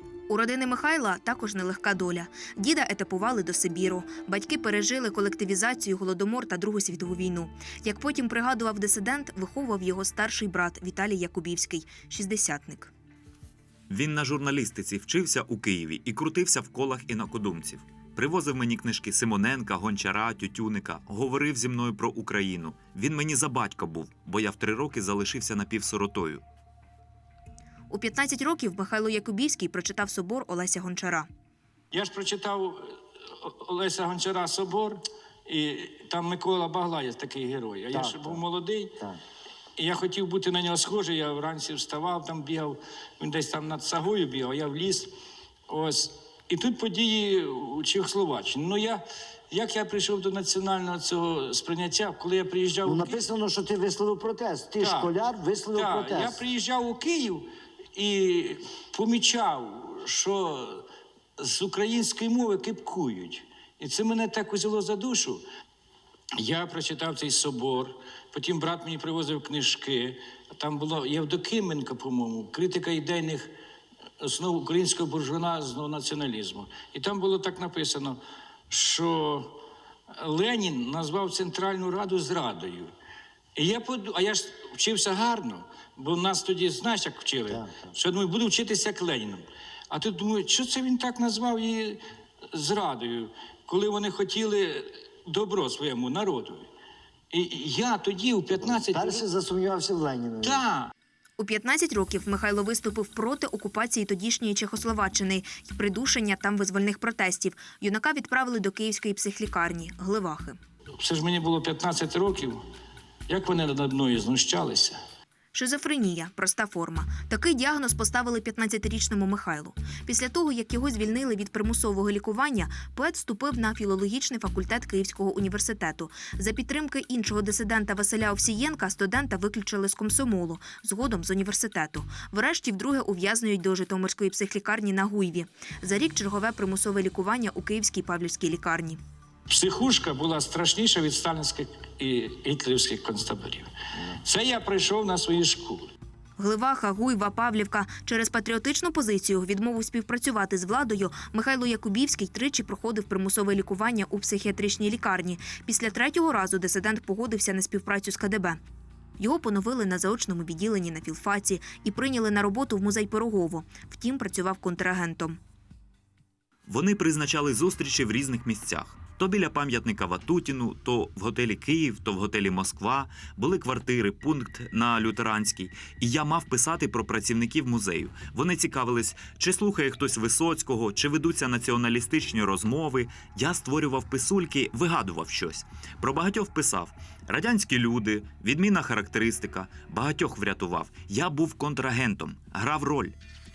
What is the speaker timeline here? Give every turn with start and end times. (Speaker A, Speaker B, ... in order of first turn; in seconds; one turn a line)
Speaker A: 0.3-12.9
Speaker B: 13.9-26.4
Speaker A: 27.9-31.3
Speaker C: 31.9-38.9
Speaker D: 37.9-38.4
Speaker C: 39.8-45.1
Speaker C: 45.7-53.2
Speaker D: 52.8-56.4
Speaker C: 54.8-55.1
Speaker C: 55.7-60.9
Speaker C: 61.4-65.4
Speaker C: 66.4-73.5
Speaker C: 74.2-79.6
Speaker C: 80.1-82.9
Speaker C: 83.5-92.0
Speaker D: 87.5-87.9
Speaker C: 92.5-96.7
Speaker C: 97.3-99.2
Speaker D: 98.6-100.6
Speaker C: 100.4-100.9
Speaker A: 101.4-110.6
Speaker C: 111.0-112.6
Speaker C: 113.3-115.0
Speaker A: 115.5-139.0
Speaker C: 139.5-143.7
Speaker C: 144.2-145.9
Speaker A: 146.4-158.6
Speaker A: 159.2-165.4
Speaker B: 166.7-193.1